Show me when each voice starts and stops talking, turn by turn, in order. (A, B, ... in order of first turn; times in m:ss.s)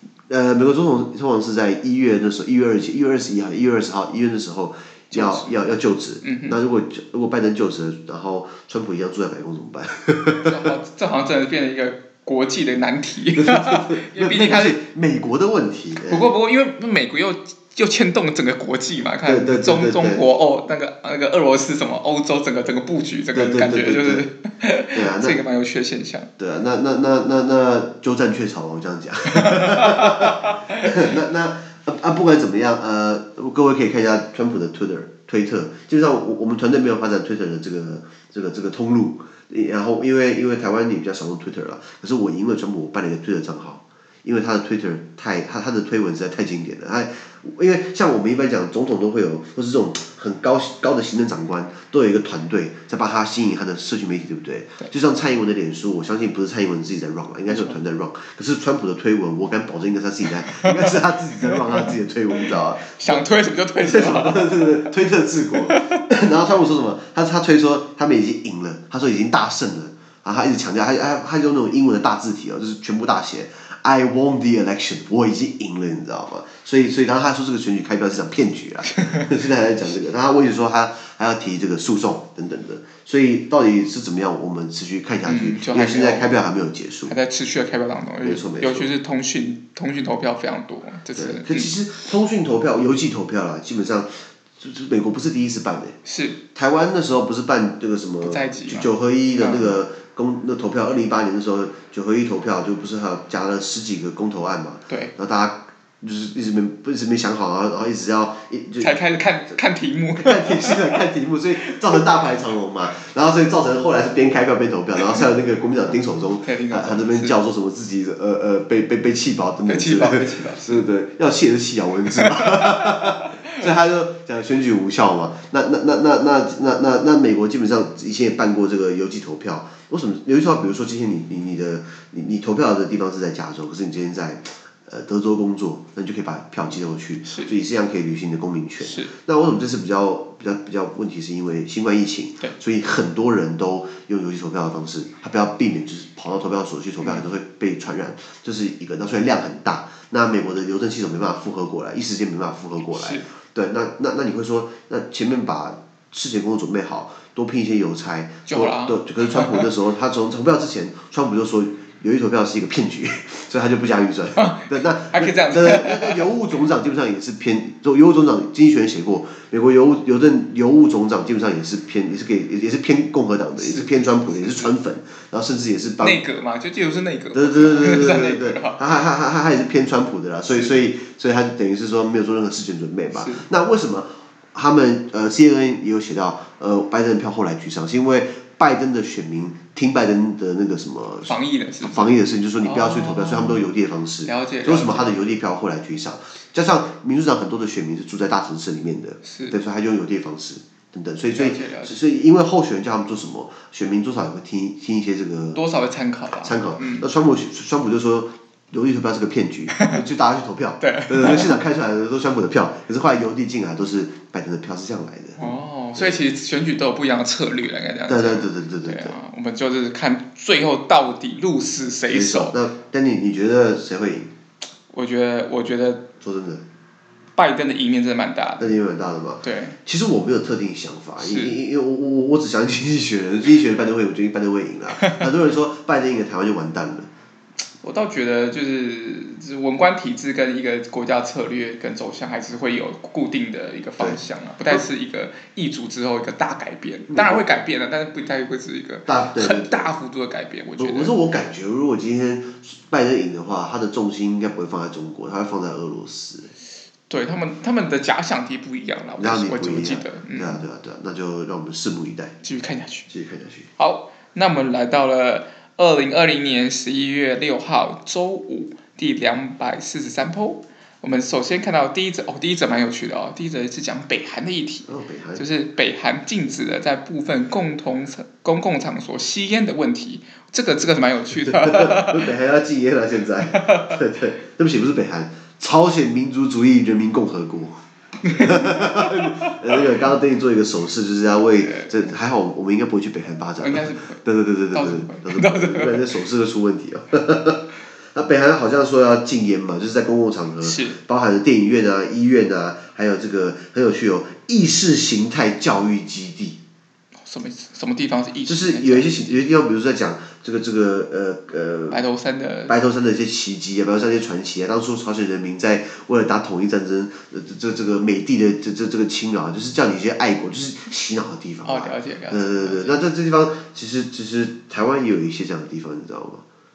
0:00.3-0:10.5 A
0:05.1-0:05.5 B
0:06.2-0:06.6 B
0:10.4-0:14.8 B
0:13.4-0:16.2 A
0:16.1-0:26.3 B
0:19.2-0:20.2 A
0:23.3-0:24.2 A
0:24.9-0:25.4 A
0:26.4-1:03.2 A
0:29.3-0:31.1 B
0:57.5-0:57.8 B
1:00.5-1:00.7 B
1:01.4-1:04.9 B
1:03.8-1:27.1 A
1:05.5-1:06.0 B
1:19.0-1:19.3 B
1:25.2-1:26.3 B
1:27.1-1:31.7 B
1:28.2-1:28.9 A
1:31.1-1:36.0 A
1:36.0-1:36.4 B
1:36.5-1:48.9 A
1:38.2-1:39.8 B
1:48.8-1:51.0 B
1:50.2-2:56.2 A
1:56.4-1:57.4 B
1:59.6-2:00.8 B
2:02.1-2:03.4 B
2:17.2-2:17.5 B
2:18.8-2:19.1 B
2:32.9-2:33.3 B
2:38.5-2:39.7 B
2:44.4-2:46.3 B
2:53.6-2:54.7 B
2:56.0-2:58.8 B
2:57.3-3:25.6 A
3:03.1-3:03.4 B
3:11.2-3:13.6 B
3:14.2-3:15.2 B
3:19.2-3:19.6 B
3:21.3-3:22.0 B
3:25.5-3:27.1 B
3:26.4-3:36.2 A
3:29.7-3:30.0 B
3:30.8-3:31.6 B
3:35.4-3:42.6 B
3:38.1-3:39.1 A
3:42.1-3:44.3 A
3:44.9-3:46.0 B
3:46.2-3:46.6 A
3:47.4-3:48.7 B
3:48.6-3:57.1 A
3:49.4-3:49.8 B
3:51.2-3:51.6 B
3:55.0-3:55.3 B
3:57.8-4:11.1 B
4:04.0-4:04.8 A
4:07.1-4:07.4 A
4:09.1-4:09.9 A
4:10.8-4:16.5 A
4:17.1-4:20.6 B
4:19.2-4:22.3 A
4:22.4-4:23.1 B
4:23.1-4:23.7 A
4:23.8-4:42.3 B
4:34.9-4:35.4 A
4:41.4-5:06.6 A
4:43.5-4:44.0 B
4:48.2-4:49.8 B
4:51.6-4:52.0 B
4:53.6-4:56.1 B
5:00.6-5:01.0 B
5:07.2-5:09.3 B
5:08.5-5:12.0 A
5:11.9-5:12.8 B
5:12.7-5:26.4 A
5:21.6-5:23.0 B